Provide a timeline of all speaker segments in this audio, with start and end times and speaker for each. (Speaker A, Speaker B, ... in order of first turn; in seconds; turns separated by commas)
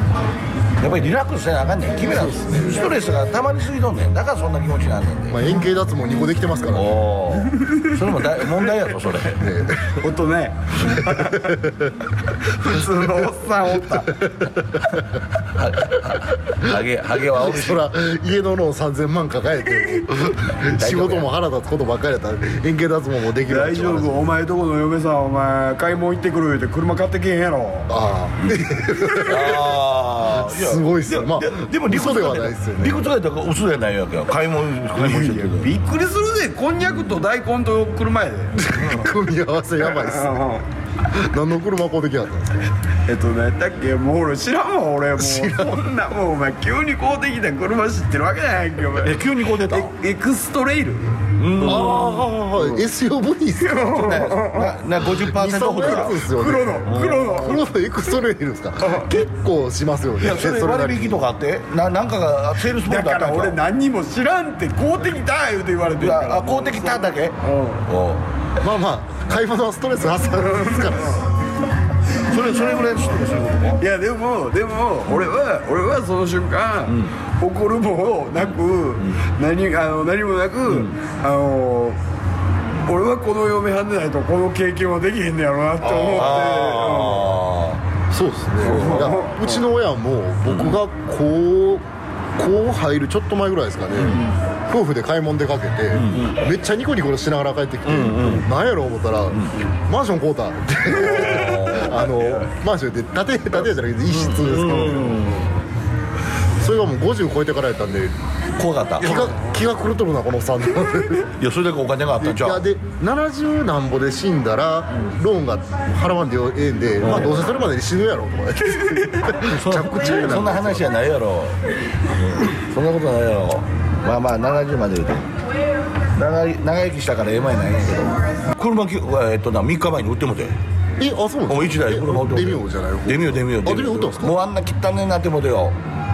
Speaker A: 0.8-5.4, Speaker B: 2.2-2.7, Speaker C: 5.3-7.0, Speaker A: 6.7-9.4, Speaker B: 7.6-7.9, Speaker C: 9.3-10.0, Speaker B: 9.8-11.7, Speaker C: 11.0-12.0, Speaker B: 12.4-14.3, Speaker C: 14.2-14.8, Speaker A: 15.5-17.9, Speaker C: 16.6-24.3, Speaker A: 20.6-21.3, Speaker B: 23.4-27.9, Speaker C: 27.9-29.8, Speaker A: 28.5-35.7, Speaker C: 30.3-33.1, Speaker B: 35.0-38.7, Speaker C: 38.6-40.5, Speaker B: 39.8-40.6, Speaker C: 41.1-42.7, Speaker B: 43.1-52.0, Speaker C: 45.2-45.8, Speaker A: 49.0-49.9, Speaker A: 51.4-52.3, Speaker C: 51.6-54.1, Speaker B: 53.6-54.8, Speaker A: 53.9-56.2, Speaker C: 55.1-61.3, Speaker B: 55.8-57.6, Speaker A: 56.9-57.6, Speaker B: 58.8-59.1, Speaker A: 60.2-63.6, Speaker B: 62.7-67.8, Speaker A: 66.0-67.4, Speaker A: 67.9-68.3, Speaker C: 68.6-71.2, Speaker B: 70.6-71.2, Speaker A: 72.3-73.8, Speaker B: 73.8-82.0, Speaker A: 80.7-80.9, Speaker B: 82.8-87.4, Speaker A: 85.8-87.8, Speaker C: 88.1-91.8, Speaker B: 88.6-89.7, Speaker A: 88.8-89.1, Speaker A: 90.5-90.8, Speaker C: 92.4-105.3, Speaker A: 94.0-94.3, Speaker A: 96.0-96.4, Speaker A: 97.8-98.5, Speaker A: 100.9-102.4, Speaker A: 104.1-105.5, Speaker C: 106.6-108.2, Speaker A: 108.6-109.3, Speaker C: 109.0-111.3, Speaker B: 109.1-109.5, Speaker A: 111.4-112.6, Speaker C: 112.2-120.9, Speaker A: 117.0-117.5, Speaker A: 119.4-121.6, Speaker A: 122.1-125.3, Speaker A: 126.2-130.6, Speaker C: 131.0-134.3, Speaker A: 131.5-135.8